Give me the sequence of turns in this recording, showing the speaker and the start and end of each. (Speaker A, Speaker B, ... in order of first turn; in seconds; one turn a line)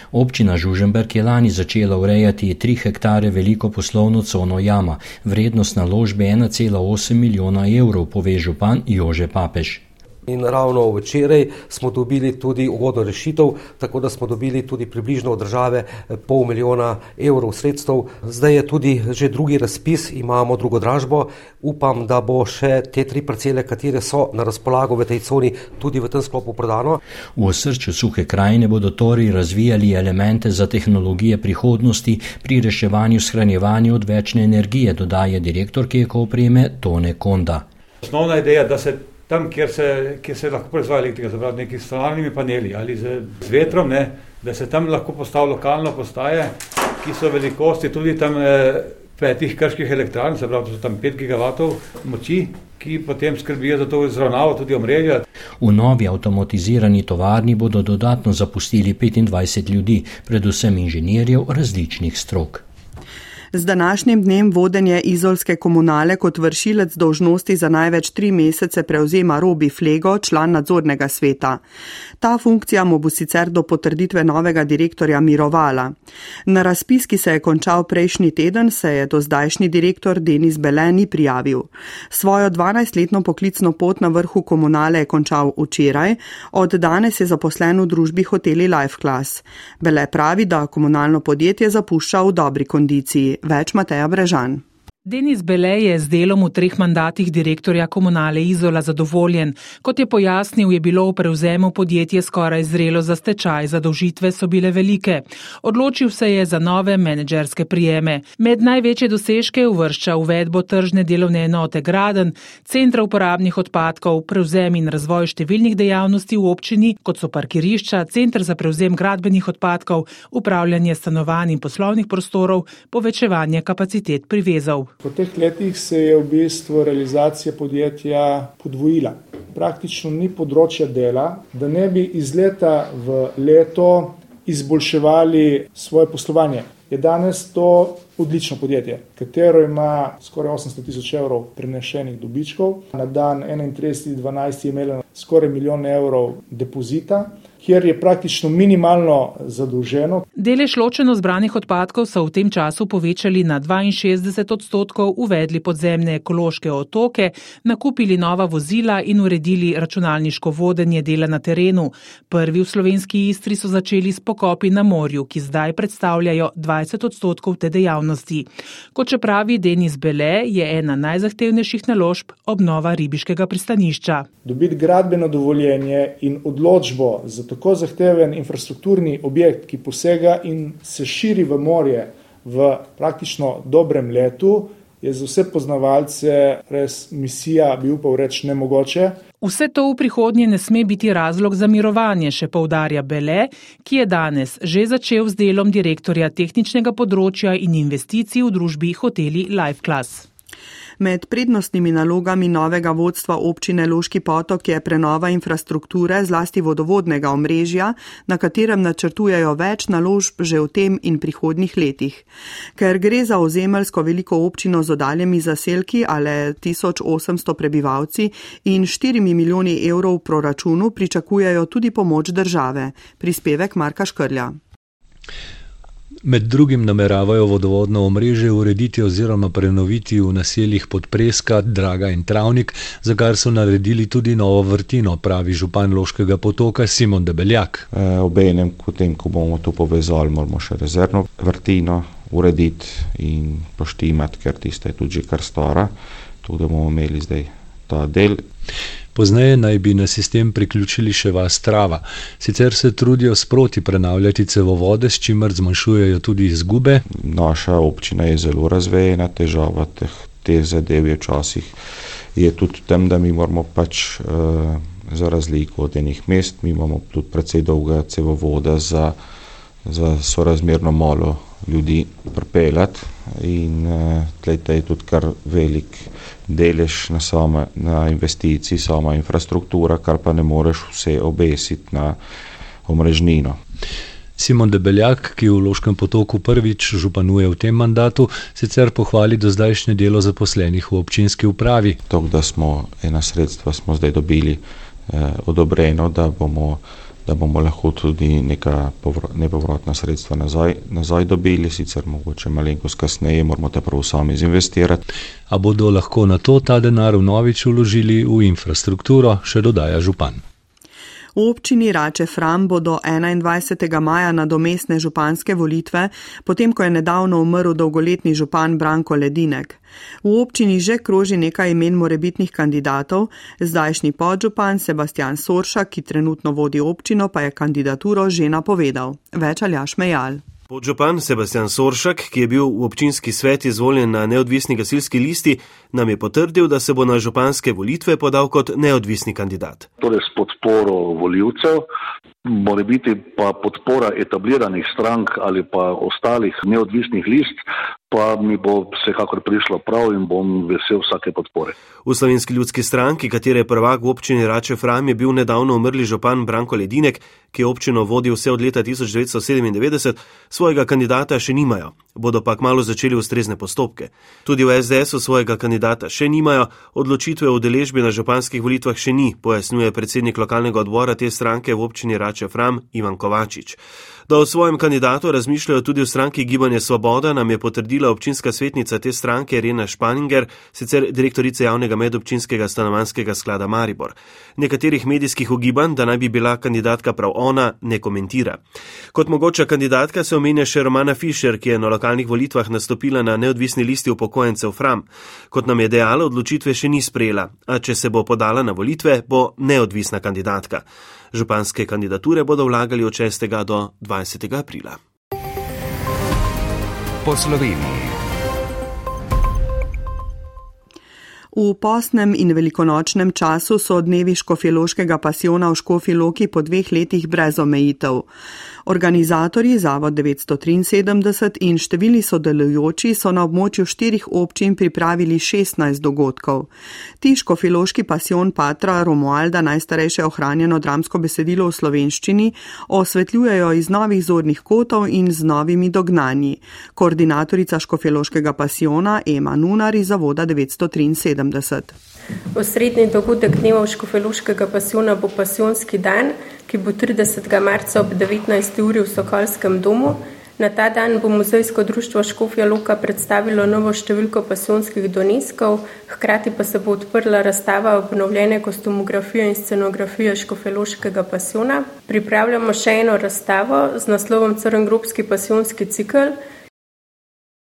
Speaker A: 0.1-9.8
Speaker B: 10.3-27.0
Speaker A: 27.4-37.6
Speaker C: 38.0-55.2
Speaker A: 55.6-62.6
Speaker D: 63.5-71.6
Speaker D: 72.2-76.0
Speaker D: 76.5-94.6
Speaker E: 95.1-124.9
Speaker F: 125.0-150.3
Speaker E: 150.4-174.3
Speaker F: 174.4-189.2
Speaker E: 189.4-200.3
Speaker D: 201.0-224.6
Speaker G: 226.2-237.9
Speaker H: 237.9-245.9
Speaker H: 246.4-248.4
Speaker G: 249.2-257.0
Speaker H: 257.1-261.7
Speaker H: 262.4-269.2
Speaker H: 269.9-282.2
Speaker H: 282.9-283.6
Speaker G: 284.4-292.0
Speaker H: 292.1-305.0
Speaker G: 305.5-310.4
Speaker D: 311.4-330.4
Speaker I: 330.7-339.9
Speaker J: 340.0-341.8
Speaker J: 342.5-347.6
Speaker J: 348.1-351.7
Speaker I: 352.1-388.6
Speaker I: 389.1-405.0
Speaker B: 407.3-408.0
Speaker D: 411.5-418.3
Speaker D: 418.9-426.7
Speaker D: 427.2-441.9
Speaker K: 442.6-466.4